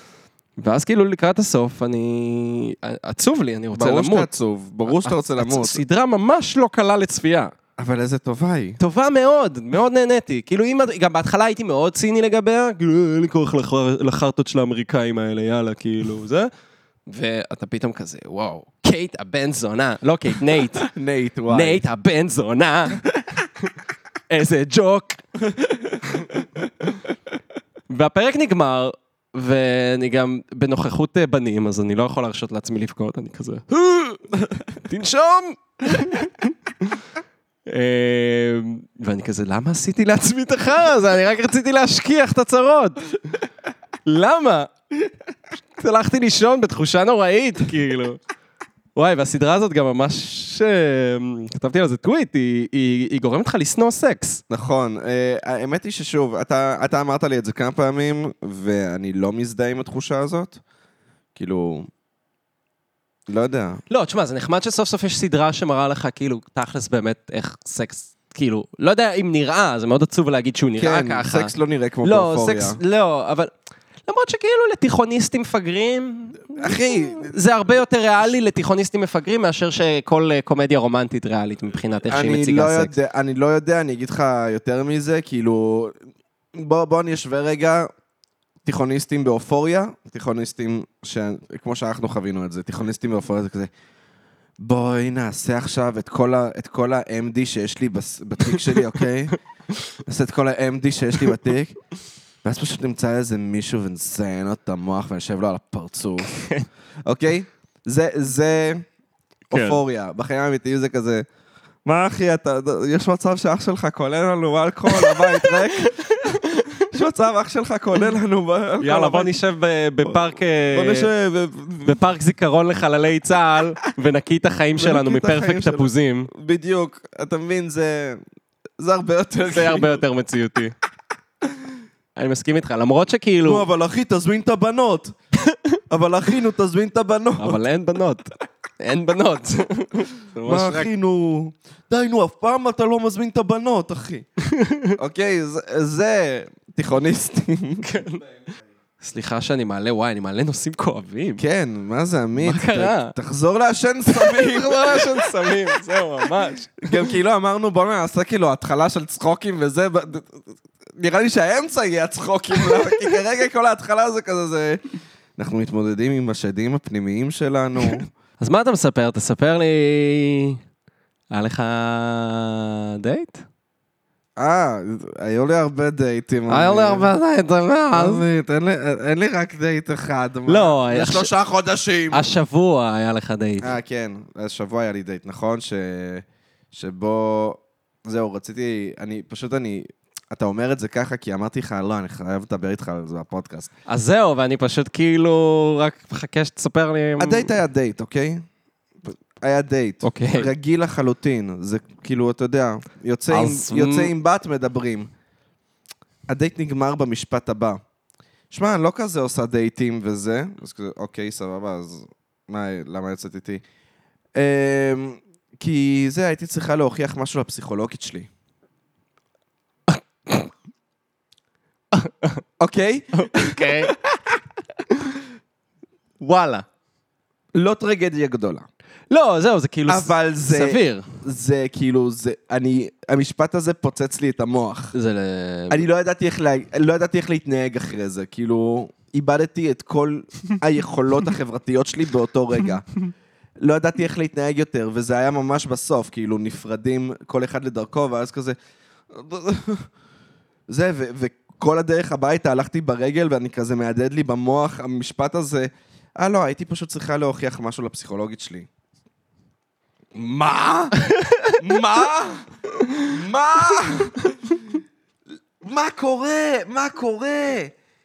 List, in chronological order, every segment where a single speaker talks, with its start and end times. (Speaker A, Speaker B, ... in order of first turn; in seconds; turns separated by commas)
Speaker A: 0.6-4.3, Speaker B: 3.8-5.8, Speaker A: 4.9-7.5, Speaker B: 7.8-8.8, Speaker A: 8.8-16.5, Speaker A: 17.1-20.9, Speaker B: 20.8-21.8, Speaker A: 21.5-23.0, Speaker A: 24.3-25.2, Speaker B: 25.5-26.7, Speaker A: 27.9-34.3, Speaker A: 34.8-37.0, Speaker A: 37.7-43.0, Speaker A: 44.1-44.7, Speaker A: 45.8-48.2, Speaker A: 49.0-54.4, Speaker B: 54.5-60.6, Speaker B: 61.4-61.9, Speaker B: 63.3-63.8, Speaker A: 63.9-73.5, Speaker B: 70.8-72.8, Speaker A: 74.1-82.9, Speaker B: 76.5-77.4, Speaker B: 82.1-86.0, Speaker B: 86.5-87.9, Speaker B: 88.7-93.7, Speaker B: 94.6-99.4, Speaker B: 100.0-101.8, Speaker B: 102.4-106.3, Speaker A: 106.2-106.7, Speaker B: 107.1-108.8, Speaker B: 109.5-111.2, Speaker A: 109.5-109.8, Speaker B: 111.8-116.4, Speaker A: 114.9-116.8, Speaker B: 116.9-119.4, Speaker A: 118.8-121.1, Speaker B: 120.0-122.0, Speaker A: 121.8-126.3, Speaker B: 124.8-128.2, Speaker B: 128.8-130.0, Speaker A: 129.5-130.7, Speaker A: 132.2-133.7, Speaker B: 133.4-135.2, Speaker B: 135.9-137.6, Speaker A: 137.4-140.9, Speaker B: 140.4-144.3, Speaker A: 144.4-145.0, Speaker B: 145.0-147.9, Speaker A: 147.8-148.3, Speaker A: 149.0-151.4, Speaker B: 151.4-155.7, Speaker A: 152.4-153.2, Speaker A: 154.1-157.1, Speaker B: 156.8-164.8, Speaker B: 165.4-168.1, Speaker A: 167.9-170.6, Speaker A: 171.3-173.4, Speaker B: 174.4-177.1, Speaker A: 176.5-178.2, Speaker B: 177.9-182.3, Speaker A: 180.5-181.3, Speaker A: 182.1-183.7, Speaker B: 183.6-193.7, Speaker A: 193.9-197.5, Speaker B: 197.2-198.4, Speaker B: 199.0-205.1, Speaker A: 200.0-200.5, Speaker A: 203.3-204.1, Speaker B: 206.3-207.8, Speaker B: 208.5-213.6, Speaker B: 214.3-218.3, Speaker A: 219.9-220.5, Speaker A: 221.9-222.4, Speaker B: 222.6-224.2, Speaker A: 223.1-223.9, Speaker A: 226.2-226.7, Speaker B: 227.5-228.7, Speaker A: 229.1-231.1, Speaker B: 229.9-234.9, Speaker A: 234.9-235.8, Speaker B: 235.7-242.9, Speaker B: 243.6-248.6, Speaker B: 249.1-249.9, Speaker B: 250.7-258.7, Speaker B: 260.1-261.0, Speaker A: 261.0-261.6, Speaker B: 261.6-262.5, Speaker B: 263.1-264.4, Speaker B: 265.6-267.7